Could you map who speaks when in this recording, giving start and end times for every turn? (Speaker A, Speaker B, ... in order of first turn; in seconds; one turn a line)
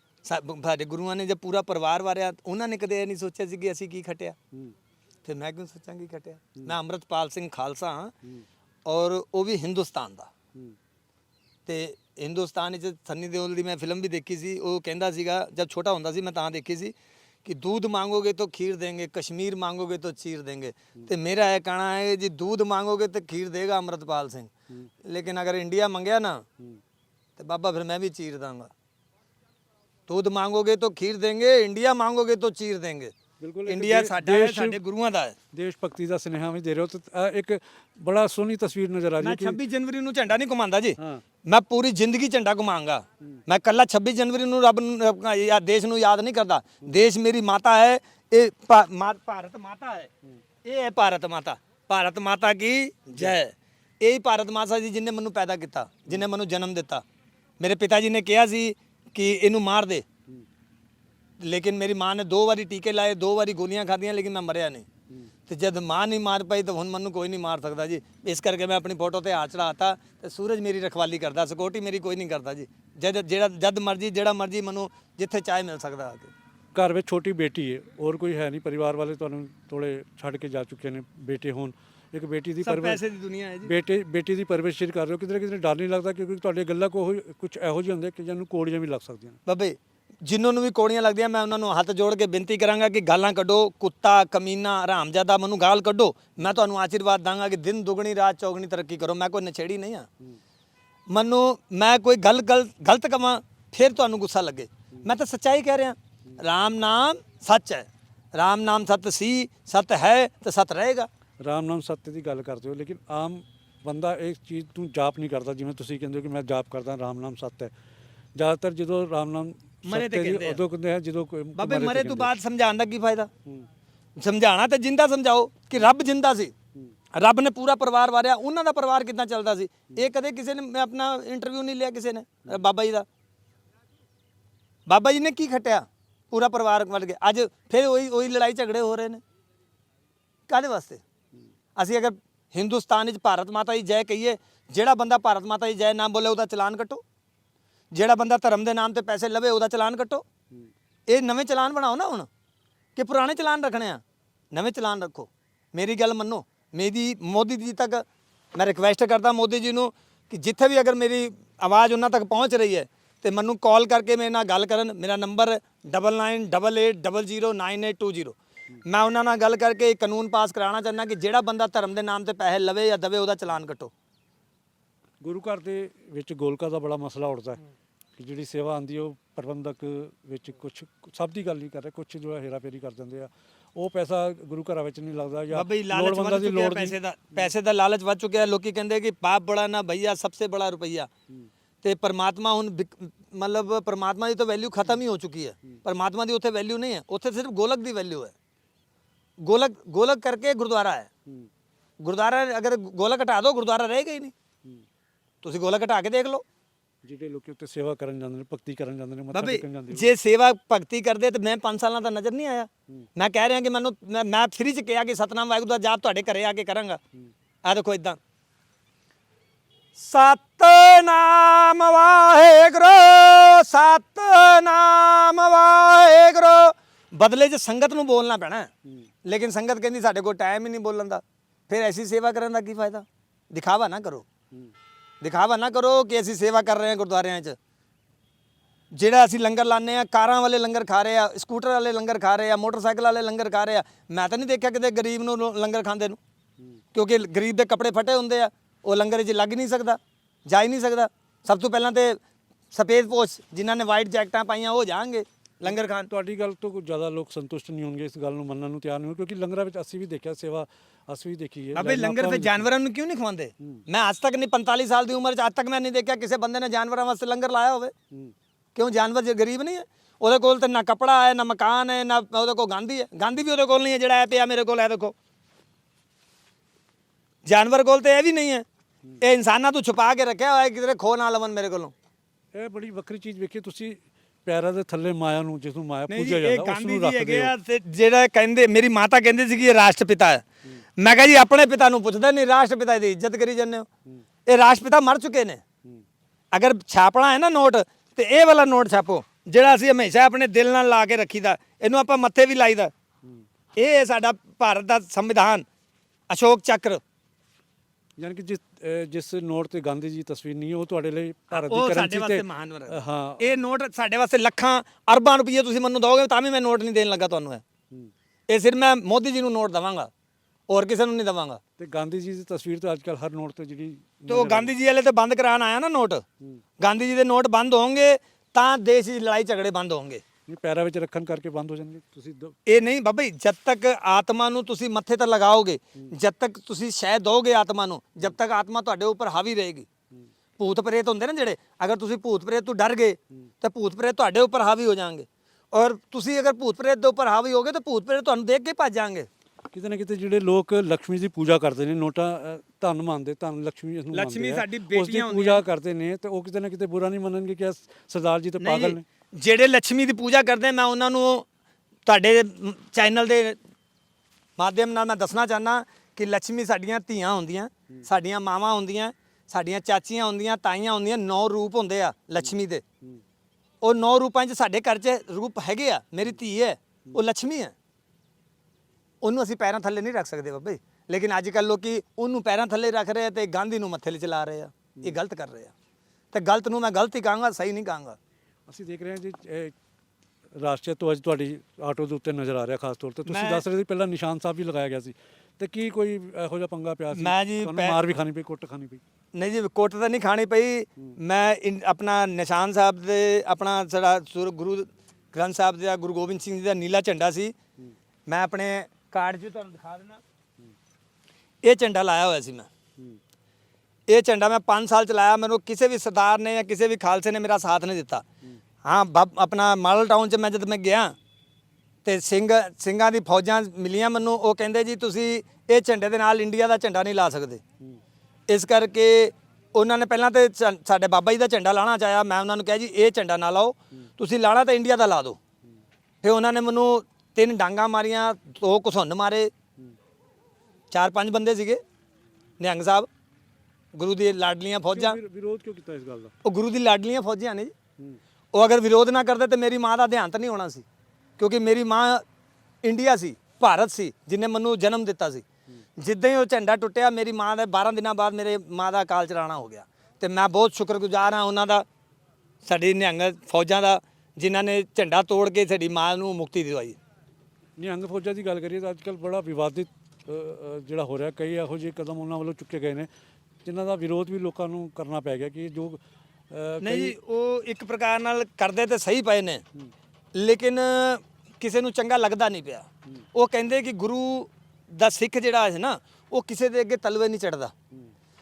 Speaker A: 0.2-4.4
Speaker A: 5.2-8.1
Speaker A: 8.8-10.3
Speaker A: 11.7-26.4
Speaker A: 27.4-28.7
Speaker A: 30.1-33.1
Speaker B: 33.4-34.8
Speaker A: 33.6-35.4
Speaker B: 35.5-39.6
Speaker A: 39.2-50.1
Speaker B: 41.0-41.2
Speaker A: 50.6-57.0
Speaker A: 57.6-60.0
Speaker A: 61.4-64.8
Speaker A: 65.5-76.3
Speaker B: 76.7-83.0
Speaker A: 82.6-83.7
Speaker B: 83.6-89.4
Speaker A: 89.5-100.1
Speaker A: 101.1-111.1
Speaker B: 111.4-117.7
Speaker B: 118.3-122.3
Speaker A: 119.8-120.6
Speaker A: 121.5-123.3
Speaker A: 124.2-126.5
Speaker A: 127.1-133.1
Speaker A: 134.9-139.2
Speaker A: 140.5-141.0
Speaker A: 141.8-147.0
Speaker A: 147.9-150.2
Speaker A: 151.1-152.3
Speaker A: 152.9-154.0
Speaker A: 154.5-173.9
Speaker B: 175.2-177.6
Speaker B: 178.2-187.0
Speaker A: 185.5-191.1
Speaker A: 191.8-198.3
Speaker A: 199.4-201.1
Speaker A: 202.0-204.3
Speaker A: 205.4-206.4
Speaker B: 207.0-210.1
Speaker A: 209.3-217.0
Speaker A: 217.6-218.2
Speaker A: 219.9-228.7
Speaker A: 229.2-234.2
Speaker A: 235.2-237.6
Speaker A: 238.9-246.2
Speaker A: 246.9-252.2
Speaker A: 252.7-256.1
Speaker B: 256.1-262.7
Speaker A: 261.7-267.9
Speaker A: 268.7-275.1
Speaker A: 277.4-278.6
Speaker A: 279.2-281.9
Speaker B: 282.5-287.5
Speaker A: 286.1-290.4
Speaker A: 291.0-293.9
Speaker A: 294.4-295.6
Speaker A: 296.5-302.9
Speaker A: 303.7-305.6
Speaker A: 306.3-307.0
Speaker B: 308.2-313.5
Speaker A: 311.5-317.6
Speaker A: 318.5-320.1
Speaker A: 320.7-321.6
Speaker B: 321.8-324.7
Speaker A: 324.3-326.2
Speaker A: 326.8-330.2
Speaker B: 330.5-332.5
Speaker A: 332.7-339.9
Speaker A: 340.6-349.3
Speaker B: 349.7-359.0
Speaker A: 354.1-355.6
Speaker A: 358.6-361.4
Speaker A: 362.1-363.6
Speaker A: 364.6-372.8
Speaker A: 373.8-377.7
Speaker A: 379.2-385.7
Speaker A: 386.3-388.2
Speaker B: 388.7-389.7
Speaker B: 390.6-399.0
Speaker A: 393.3-393.6
Speaker A: 397.1-398.0
Speaker A: 399.3-407.5
Speaker A: 408.3-410.2
Speaker A: 411.6-412.7
Speaker A: 414.1-418.2
Speaker A: 418.8-421.1
Speaker A: 422.0-427.6
Speaker A: 428.5-435.4
Speaker A: 436.2-439.5
Speaker A: 440.9-441.8
Speaker A: 442.6-443.1
Speaker A: 443.9-445.2
Speaker B: 444.9-446.3
Speaker A: 446.4-447.7
Speaker A: 448.5-450.9
Speaker A: 451.4-452.2
Speaker A: 452.8-455.4
Speaker A: 456.0-461.8
Speaker A: 462.6-467.0
Speaker B: 467.8-473.1
Speaker B: 473.6-477.1
Speaker A: 476.8-479.6
Speaker A: 480.3-487.7